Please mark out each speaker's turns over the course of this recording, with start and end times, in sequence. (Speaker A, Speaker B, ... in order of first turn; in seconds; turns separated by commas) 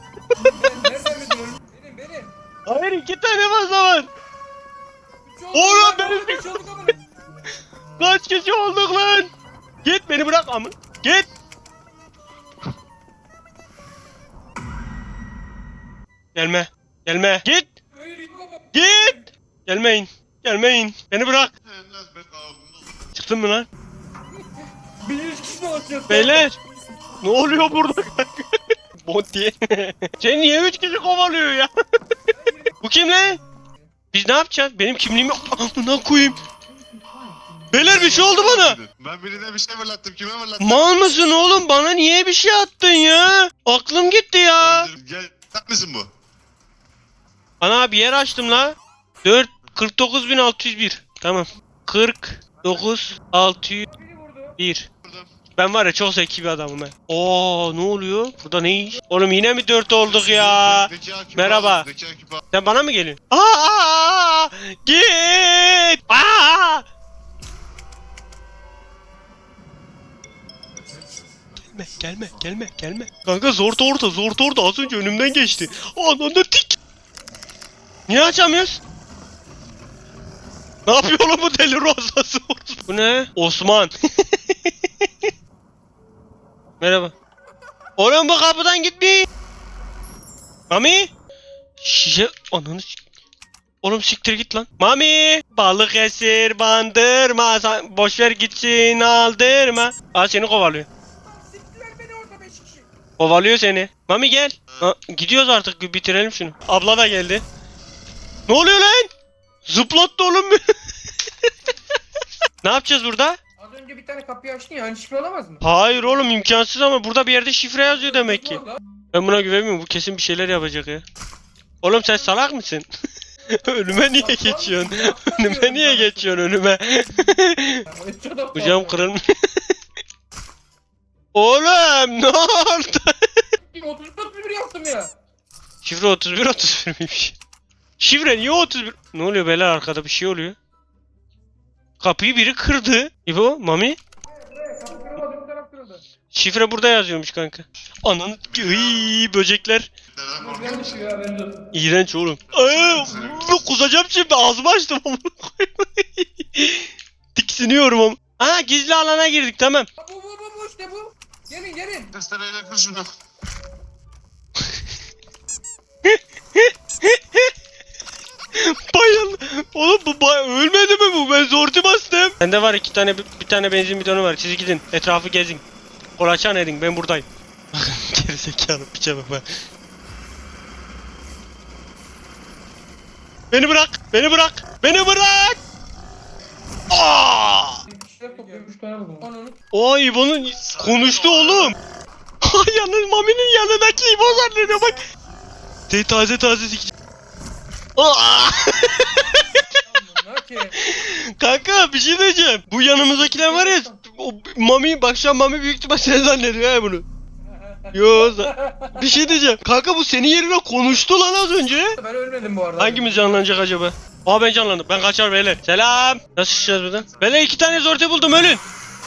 Speaker A: 0.4-2.3, Speaker B: 2.6-4.1, Speaker A: 5.2-7.0, Speaker B: 5.5-6.5, Speaker B: 8.0-9.3, Speaker B: 9.8-11.3, Speaker B: 16.3-17.7, Speaker A: 17.9-19.3, Speaker B: 18.7-21.5, Speaker C: 21.6-22.9, Speaker B: 23.1-23.7, Speaker A: 24.5-26.5, Speaker B: 26.1-26.6, Speaker B: 27.2-28.4, Speaker B: 29.0-31.7, Speaker A: 32.3-32.8, Speaker B: 32.8-33.4, Speaker B: 34.1-36.4, Speaker B: 37.7-38.8, Speaker C: 37.9-40.9, Speaker B: 40.6-44.9, Speaker C: 44.6-46.1, Speaker B: 47.6-53.9, Speaker A: 53.9-54.5, Speaker B: 54.6-54.9, Speaker C: 55.0-55.3, Speaker B: 55.5-61.9, Speaker C: 60.0-62.4, Speaker B: 62.5-66.8, Speaker B: 71.7-76.8, Speaker B: 78.1-78.8, Speaker B: 80.8-85.1, Speaker B: 86.8-87.1, Speaker B: 88.0-89.3, Speaker B: 90.7-91.1, Speaker B: 91.8-93.0, Speaker B: 93.8-100.9, Speaker A: 101.2-102.9, Speaker B: 103.2-107.4, Speaker B: 108.5-109.1, Speaker B: 109.7-110.6, Speaker B: 112.6-113.4, Speaker A: 113.6-115.6, Speaker B: 115.6-121.0, Speaker A: 118.0-118.8, Speaker B: 121.8-122.9, Speaker A: 123.5-129.1, Speaker B: 123.5-127.8, Speaker B: 128.5-129.3, Speaker B: 131.3-133.1, Speaker A: 133.6-135.1, Speaker B: 135.8-137.3, Speaker B: 138.0-140.6, Speaker B: 142.0-144.0, Speaker A: 144.3-146.0, Speaker B: 146.3-149.9, Speaker C: 148.5-149.0, Speaker C: 150.1-150.9, Speaker A: 150.4-151.6, Speaker B: 151.7-159.9, Speaker C: 152.5-153.5, Speaker A: 160.0-162.1, Speaker C: 162.1-163.1, Speaker B: 166.0-167.5, Speaker B: 168.6-175.6, Speaker B: 176.2-179.4, Speaker B: 183.5-185.6, Speaker B: 186.9-187.8, Speaker A: 187.8-189.6, Speaker B: 189.7-191.7, Speaker C: 190.6-191.7, Speaker B: 192.4-195.1, Speaker B: 195.9-196.9, Speaker B: 198.0-199.6, Speaker A: 199.8-200.8, Speaker B: 200.8-207.0, Speaker A: 203.2-204.0, Speaker A: 207.4-209.2, Speaker B: 207.9-211.9, Speaker A: 211.9-213.4, Speaker B: 212.8-218.6, Speaker C: 216.4-217.4